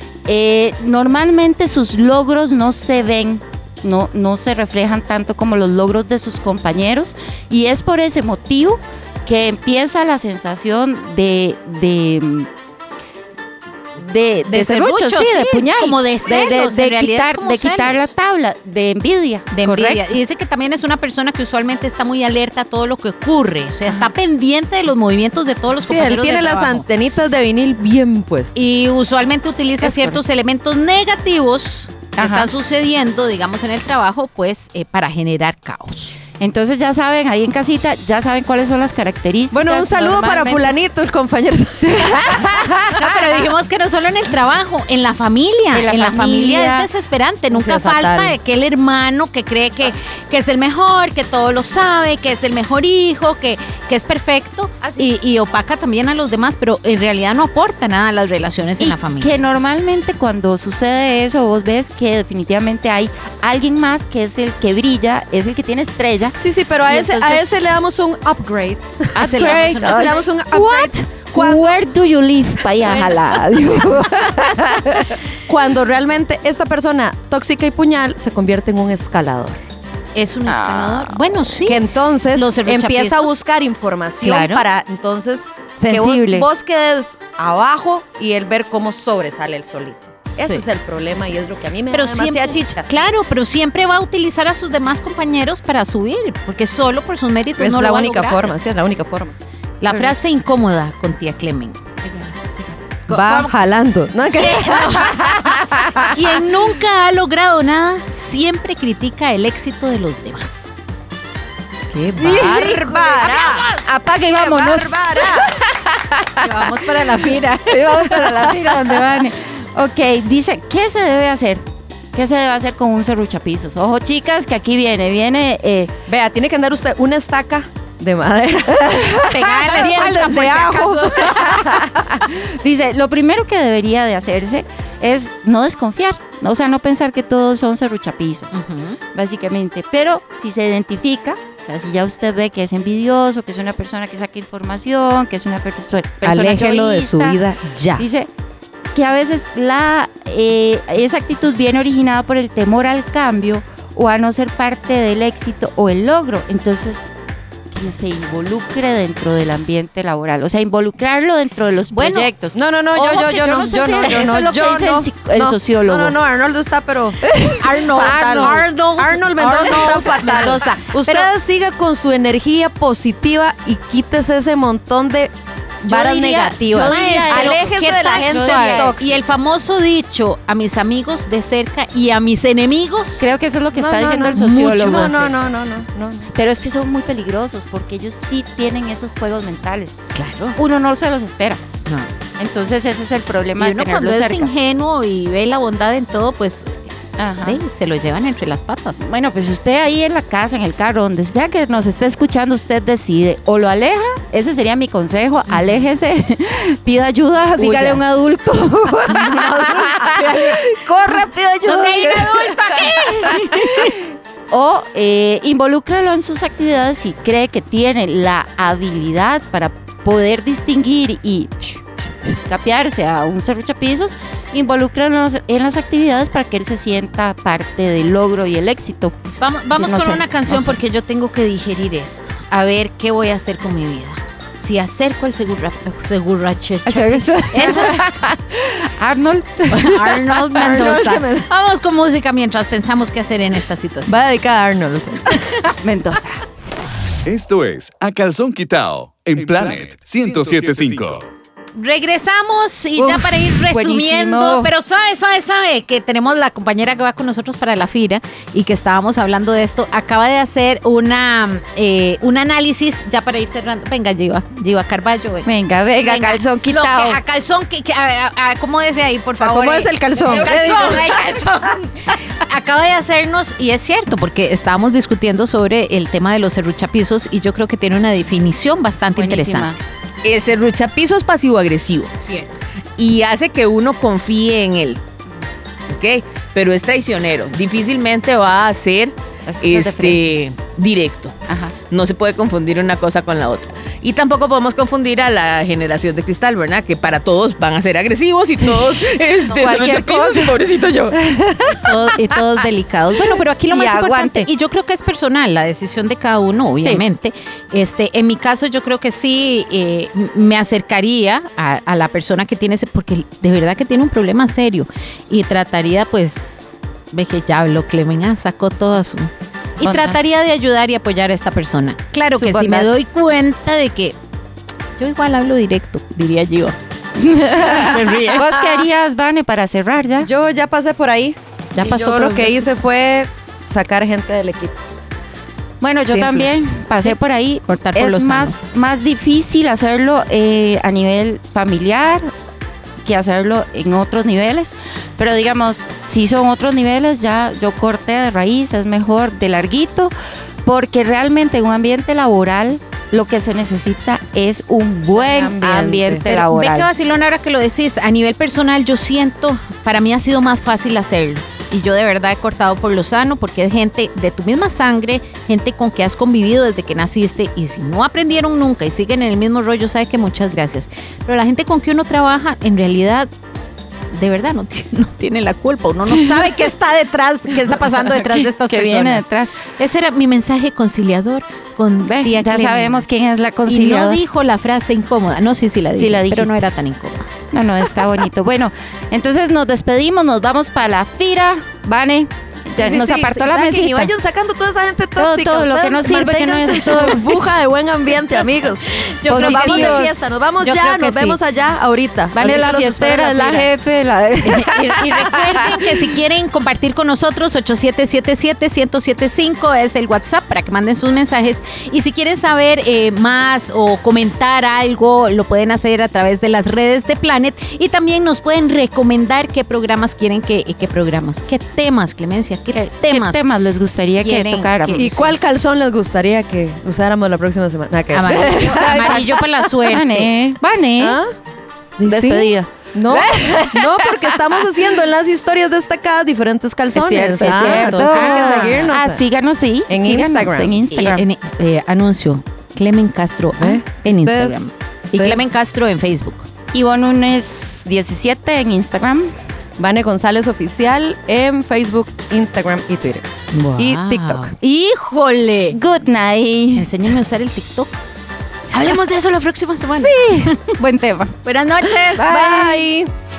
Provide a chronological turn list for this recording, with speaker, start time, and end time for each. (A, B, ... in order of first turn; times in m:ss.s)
0:00.3-0:12.5 A
0:14.0-0:20.0 A
0:14.5-0:18.1 B
0:19.5-0:26.9 B
0:25.8-0:28.5 C
0:28.6-0:36.2 B
0:29.8-0:30.2 A
0:32.2-0:32.5 A
0:36.4-0:40.8 A
0:39.5-0:42.5 C
0:42.3-0:42.7 A
0:43.0-0:59.4 B
0:45.7-0:46.9 A
0:47.5-0:48.4 C
0:54.8-0:55.1 A
0:58.8-1:06.4 A
1:06.4-1:11.8 C
1:06.9-1:07.5 A
1:09.2-1:15.2 A
1:09.2-1:10.2 B
1:15.5-1:19.6 C
1:20.1-1:23.4 B
1:20.5-1:21.2 A
1:21.6-1:32.9 C
1:24.2-1:24.6 B
1:25.8-1:26.5 A
1:31.9-1:38.5 B
1:37.6-1:39.4 C
1:39.8-1:41.8 B
1:39.9-1:40.1 A
1:42.0-1:42.8 A
1:43.1-1:43.5 B
1:43.1-1:45.0 C
1:44.3-1:50.6 B
1:45.4-1:46.1 A
1:51.9-1:52.7 B
1:52.1-1:53.7 C
1:52.2-1:57.2 A
1:53.2-1:53.6 B
1:54.3-1:55.5 C
1:56.4-1:58.9 B
1:57.7-2:05.9 A
2:06.1-2:11.3 C
2:09.0-2:09.7 A
2:09.3-2:11.6 B
2:11.3-2:27.4 A
2:18.5-2:19.0 B
2:26.2-2:28.1 C
2:28.0-2:28.3 A
2:28.9-2:37.1 A
2:37.7-2:46.2 A
2:41.9-2:42.3 B
2:42.5-2:59.2 C
2:47.3-2:48.7 A
2:47.6-2:51.3 B
2:49.6-2:50.0 A
2:55.9-3:03.3 B
2:56.6-2:59.2 A
3:03.2-3:05.4 A
3:03.7-3:06.3 C
3:06.3-3:10.0 A
3:10.1-3:10.6 B
3:10.6-3:11.6 A
3:11.8-3:12.1 B
3:12.4-3:14.5 A
3:13.6-3:19.0 B
3:17.2-3:17.6 A
3:19.0-3:33.9 A
3:25.5-3:25.8 B
3:27.6-3:28.0 C
3:29.1-3:30.6 C
3:31.7-3:33.9 B
3:34.5-3:49.2 A
3:49.4-3:58.0 B
3:49.8-3:50.8 A
3:56.9-4:00.5 A
3:59.7-4:04.2 B
4:00.5-4:01.5 C
4:04.1-4:05.4 C
4:05.7-4:06.4 A
4:07.3-4:11.3 D
4:11.8-4:25.5 B
4:13.0-4:14.7 A
4:25.4-4:27.2 A
4:26.0-4:39.8 B
4:29.4-4:31.1 C
4:30.3-4:30.7 A
4:39.2-4:39.8 A
4:40.2-4:42.1 E
4:42.1-4:42.5 B
4:43.0-4:45.0 E
4:45.9-4:51.3 E
4:49.5-4:50.4 A
4:51.5-4:51.8 A
4:51.9-5:01.0 E
4:59.4-4:59.8 B
4:59.5-5:00.7 A
5:01.3-5:01.7 A
5:01.7-5:24.2 B
5:03.7-5:04.5 A
5:19.8-5:20.2 A
5:22.4-5:22.9 A
5:25.0-5:26.8 B
5:27.2-5:30.3 A
5:27.8-5:28.5 B
5:28.5-5:28.8 C
5:30.2-5:34.7 C
5:31.8-5:32.7 B
5:35.8-5:42.3 A
5:36.1-5:38.6 B
5:43.0-5:50.1 A
5:50.6-5:56.9 A
5:55.2-5:56.3 C
5:56.2-6:13.3 B
6:14.1-6:23.0 B
6:17.8-6:19.7 A
6:22.1-6:24.2 A
6:23.7-6:27.3 B
6:26.0-6:26.6 A
6:27.5-6:34.1 A
6:32.8-6:43.7 C
6:35.2-6:37.5 A
6:39.0-6:41.4 B
6:39.3-6:40.2 A
6:42.3-6:45.8 A
6:44.4-7:03.5 B
7:02.7-7:05.3 A
7:04.2-7:05.3 B
7:05.0-7:08.8 C
7:08.1-7:10.3 B
7:08.6-7:11.2 A
7:11.0-7:11.3 C
7:12.0-7:19.2 C
7:12.0-7:14.2 A
7:16.9-7:21.3 A
7:17.4-7:18.9 B
7:19.9-7:20.8 C
7:20.9-7:26.5 B
7:23.6-7:25.5 C
7:26.7-7:29.3 A
7:29.8-7:33.3 C
7:33.5-7:35.8 B
7:33.8-7:34.5 C
7:35.7-7:37.2 A
7:36.8-7:38.0 B
7:38.7-7:40.5 B
7:40.0-7:41.4 A
7:41.4-7:42.8 B
7:42.2-7:43.1 C
7:42.2-7:42.5 A